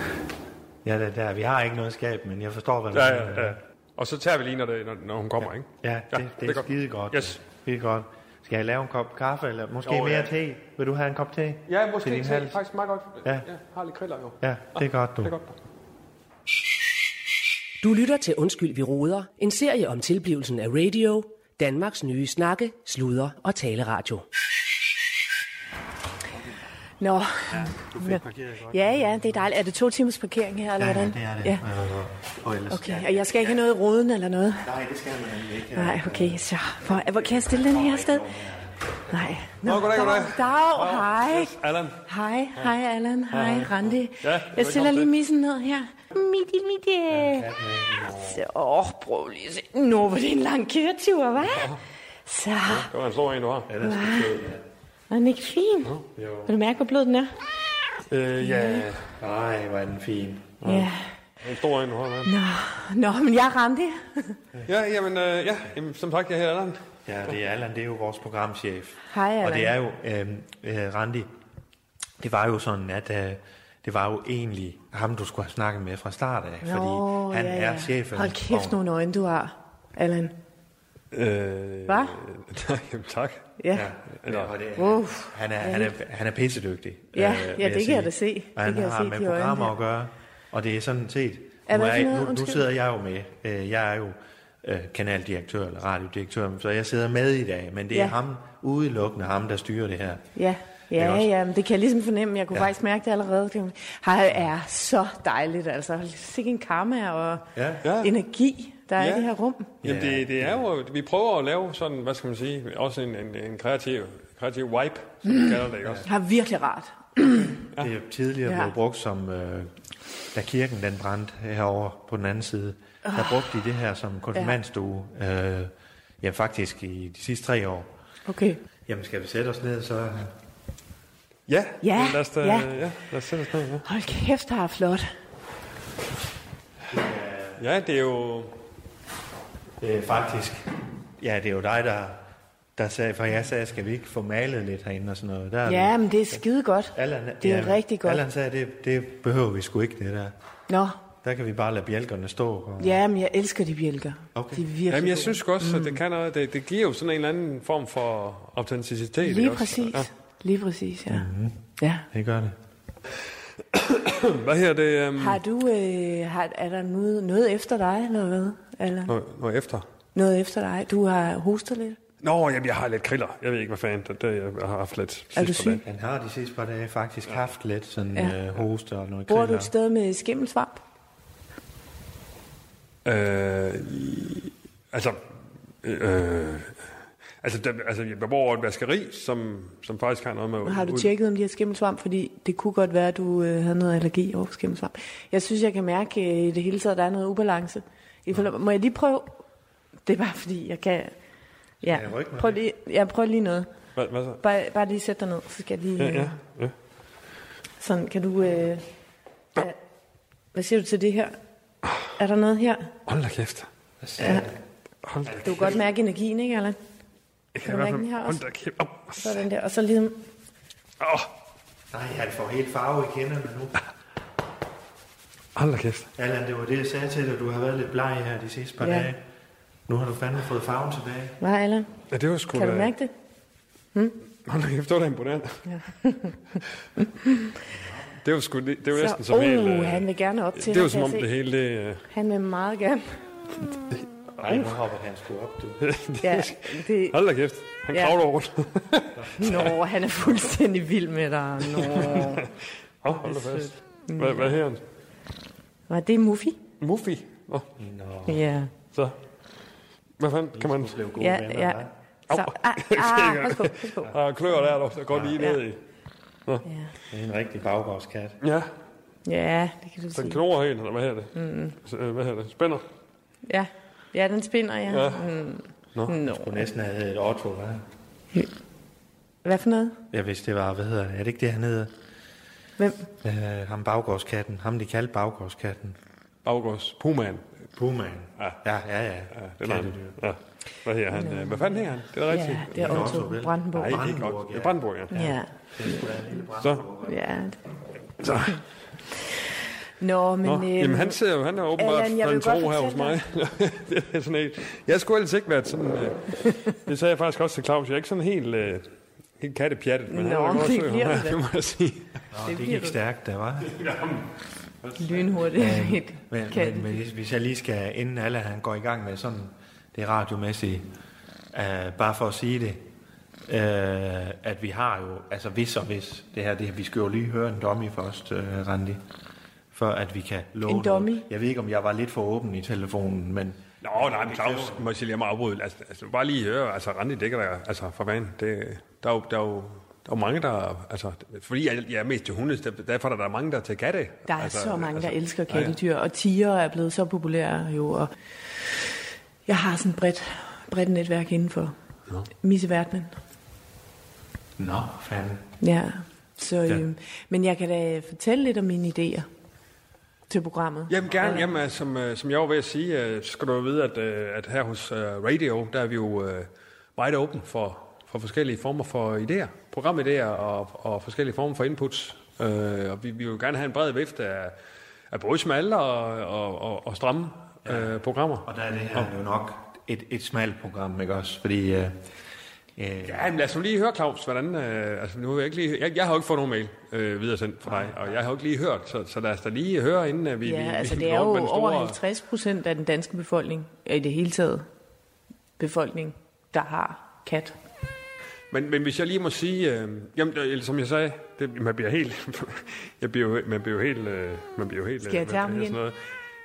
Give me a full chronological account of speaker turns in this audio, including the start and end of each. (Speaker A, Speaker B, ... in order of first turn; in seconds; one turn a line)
Speaker A: 0.8-3.6
Speaker B: 2.9-7.4
Speaker A: 5.4-12.6
Speaker B: 9.9-10.3
Speaker B: 11.7-15.5
Speaker A: 14.4-15.3
Speaker C: 17.8-24.3
Speaker D: 27.0-31.6
Speaker A: 27.9-29.4
Speaker A: 30.8-33.6
Speaker D: 32.7-34.7
Speaker A: 34.6-39.8
Speaker D: 35.7-38.3
Speaker D: 39.1-41.5
Speaker B: 39.6-42.0
Speaker D: 42.1-47.5
Speaker B: 43.3-45.1
Speaker A: 47.1-48.4
Speaker B: 48.1-48.3
Speaker D: 48.2-52.9
Speaker B: 51.4-51.8
Speaker B: 52.6-53.7
Speaker A: 53.7-54.6
Speaker D: 53.8-54.4
Speaker D: 55.1-55.9
Speaker B: 55.9-56.1
Speaker A: 56.2-56.5
Speaker D: 56.5-57.3
Speaker B: 58.1-59.1
Speaker D: 58.4-58.9
Speaker A: 59.2-60.6
Speaker B: 60.6-60.9
Speaker D: 60.6-61.0
Speaker B: 61.4-62.3
Speaker D: 62.3-64.4
Speaker B: 64.7-66.8
Speaker A: 67.1-71.3
Speaker D: 69.1-69.7
Speaker A: 72.2-78.8
Speaker D: 76.6-80.4
Speaker B: 81.1-83.5
Speaker D: 81.9-82.2
Speaker D: 83.6-83.9
Speaker A: 83.7-100.2
Speaker B: 84.2-84.5
Speaker D: 84.8-85.9
Speaker D: 87.2-89.7
Speaker D: 91.7-92.6
Speaker D: 100.4-109.7
Speaker A: 100.9-101.3
Speaker A: 107.5-107.9
Speaker B: 107.8-108.2
Speaker B: 109.0-109.3
Speaker B: 109.8-116.1
Speaker A: 109.8-110.6
Speaker A: 115.8-116.1
Speaker D: 116.0-117.6
Speaker A: 117.8-119.7
Speaker D: 118.5-118.7
Speaker A: 120.3-127.9
Speaker D: 123.0-123.4
Speaker D: 128.3-128.6
Speaker A: 128.9-130.3
Speaker B: 131.5-133.9
Speaker D: 131.8-132.7
Speaker D: 133.8-135.1
Speaker A: 136.9-137.6
Speaker B: 137.6-138.6
Speaker A: 139.8-142.2
Speaker A: 142.8-146.4
Speaker D: 145.7-148.2
Speaker A: 146.9-150.3
Speaker D: 150.7-151.0
Speaker A: 151.2-153.0
Speaker D: 152.8-156.0
Speaker A: 154.3-154.7
Speaker B: 154.9-160.1
Speaker D: 159.2-161.3
Speaker A: 161.1-162.6
Speaker D: 161.8-162.1
Speaker B: 163.7-165.4
Speaker D: 165.2-169.1
Speaker B: 169.1-169.9
Speaker D: 170.1-172.0
Speaker B: 172.2-175.8
Speaker D: 175.3-175.8
Speaker A: 175.8-179.7
Speaker D: 179.3-180.8
Speaker B: 183.1-185.2
Speaker B: 185.8-186.9
Speaker B: 187.4-191.1
Speaker D: 190.6-199.3
Speaker D: 200.1-201.1
Speaker D: 201.8-203.7
Speaker A: 201.8-202.6
Speaker B: 204.0-204.4
Speaker D: 204.4-206.4
Speaker B: 206.0-206.7
Speaker D: 207.8-208.8
Speaker D: 210.5-211.4
Speaker D: 212.2-212.9
Speaker B: 213.1-213.7
Speaker A: 214.0-214.6
Speaker D: 214.2-214.5
Speaker B: 215.0-215.7
Speaker A: 215.2-215.8
Speaker D: 215.4-216.8
Speaker B: 217.6-219.4
Speaker D: 217.7-218.4
Speaker D: 219.2-220.2
Speaker B: 221.0-221.3
Speaker A: 221.9-223.8
Speaker B: 225.6-226.1
Speaker A: 226.2-229.2
Speaker D: 228.8-229.1
Speaker A: 229.9-231.4
Speaker D: 231.4-231.9
Speaker B: 232.1-232.9
Speaker D: 232.5-233.1
Speaker B: 234.4-235.7
Speaker D: 235.7-237.6
Speaker A: 237.7-238.1
Speaker B: 238.2-242.1
Speaker D: 238.9-241.3
Speaker D: 242.1-243.1
Speaker A: 244.4-245.8
Speaker B: 245.8-249.8
Speaker D: 246.2-247.2
Speaker A: 249.2-249.7
Speaker D: 249.4-252.5
Speaker B: 251.6-254.8
Speaker D: 253.2-254.6
Speaker D: 255.9-256.6
Speaker B: 256.8-257.7
Speaker A: 257.8-258.4
Speaker D: 258.3-258.7
Speaker B: 260.2-261.0
Speaker A: 260.5-261.9
Speaker D: 261.2-264.1
Speaker B: 262.3-265.8
Speaker A: 265.1-265.4
Speaker D: 266.7-266.9
Speaker A: 267.1-268.4
Speaker B: 268.4-268.7
Speaker D: 269.2-270.4
Speaker B: 270.1-272.8
Speaker D: 271.4-271.8
Speaker D: 273.5-276.6
Speaker B: 274.9-275.3
Speaker A: 276.2-277.8
Speaker D: 279.4-280.0
Speaker A: 280.1-281.9
Speaker D: 282.8-283.1
Speaker A: 283.2-286.0
Speaker B: 286.4-287.5
Speaker A: 287.8-290.2
Speaker B: 289.4-293.2
Speaker D: 291.1-294.1
Speaker A: 292.7-297.2
Speaker B: 293.7-295.3
Speaker D: 295.1-296.1
Speaker B: 296.6-296.9
Speaker D: 297.1-297.6
Speaker B: 298.2-298.6
Speaker D: 300.0-301.2
Speaker B: 300.4-308.9
Speaker D: 301.8-303.2
Speaker B: 309.4-312.2
Speaker D: 310.1-311.4
Speaker A: 312.3-313.8
Speaker D: 312.4-313.0
Speaker B: 313.7-314.3
Speaker B: 314.8-315.5
Speaker D: 315.0-317.0
Speaker A: 315.6-320.9
Speaker A: 321.5-322.8
Speaker A: 323.5-329.0
Speaker A: 329.7-334.9
Speaker D: 330.7-331.3
Speaker B: 333.8-345.8
Speaker D: 344.3-348.9
Speaker D: 349.5-351.7
Speaker D: 352.4-353.2
Speaker A: 354.6-355.4
Speaker D: 355.6-359.3
Speaker D: 360.3-361.5
Speaker B: 360.9-374.6
Speaker B: 375.1-379.1
Speaker A: 377.7-377.9
Speaker A: 378.4-382.0
Speaker A: 382.8-383.3
Speaker B: 383.0-392.0
Speaker A: 387.7-388.2
Speaker D: 390.4-394.7
Speaker D: 395.6-397.6
Speaker B: 398.5-406.0
Speaker D: 405.0-405.8